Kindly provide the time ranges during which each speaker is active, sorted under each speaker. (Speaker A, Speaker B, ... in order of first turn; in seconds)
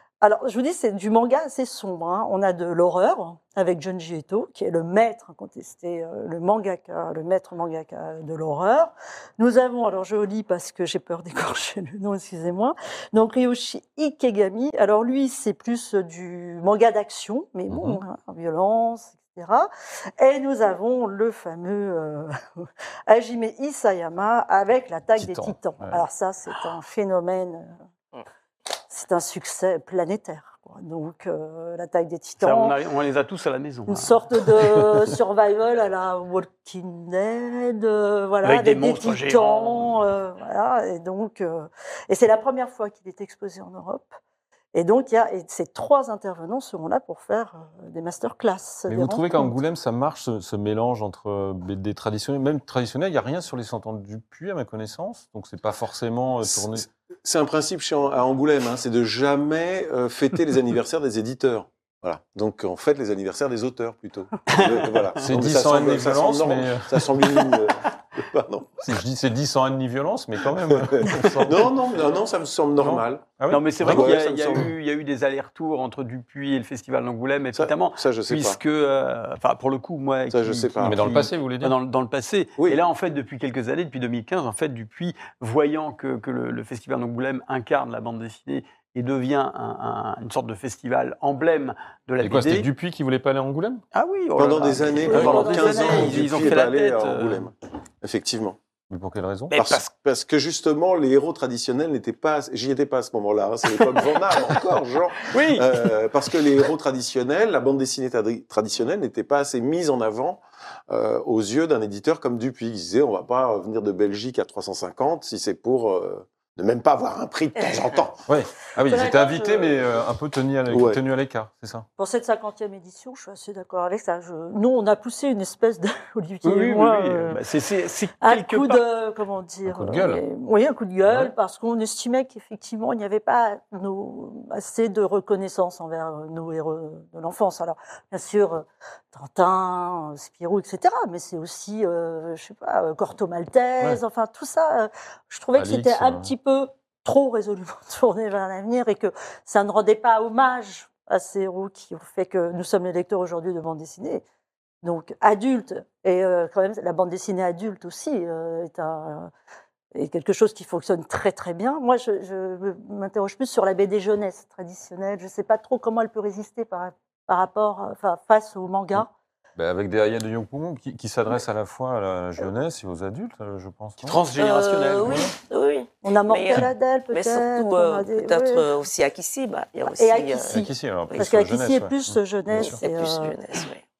Speaker A: 0.2-27.7, 28.9-32.8, 33.9-44.2, 44.7-49.5, 95.0-96.3, 118.8-119.8, 122.0-127.4, 128.2-154.2, 154.8-159.3, 159.9-169.1, 176.0-178.7, 179.9-183.3
Speaker B: 17.7-18.0, 25.2-26.0, 48.9-56.9, 65.2-67.3, 68.8-71.7, 72.8-74.7, 80.8-81.8, 92.2-93.8, 95.1-95.4, 98.9-99.5, 118.3-121.8, 129.7-130.2, 131.1-131.3, 145.5-146.3, 169.6-174.2, 175.0-175.3, 180.5-182.8
Speaker C: 32.4-34.9, 38.4-39.9, 64.5-64.9, 73.5-92.7, 93.9-97.5, 99.5-99.9, 105.2-105.9, 126.4-128.8, 174.0-175.3
Speaker D: 56.4-68.9, 70.6-74.7, 77.5-78.6, 80.3-81.1, 94.4-98.6, 99.5-118.2, 120.7-121.0
Speaker E: 174.3-181.3, 182.6-183.8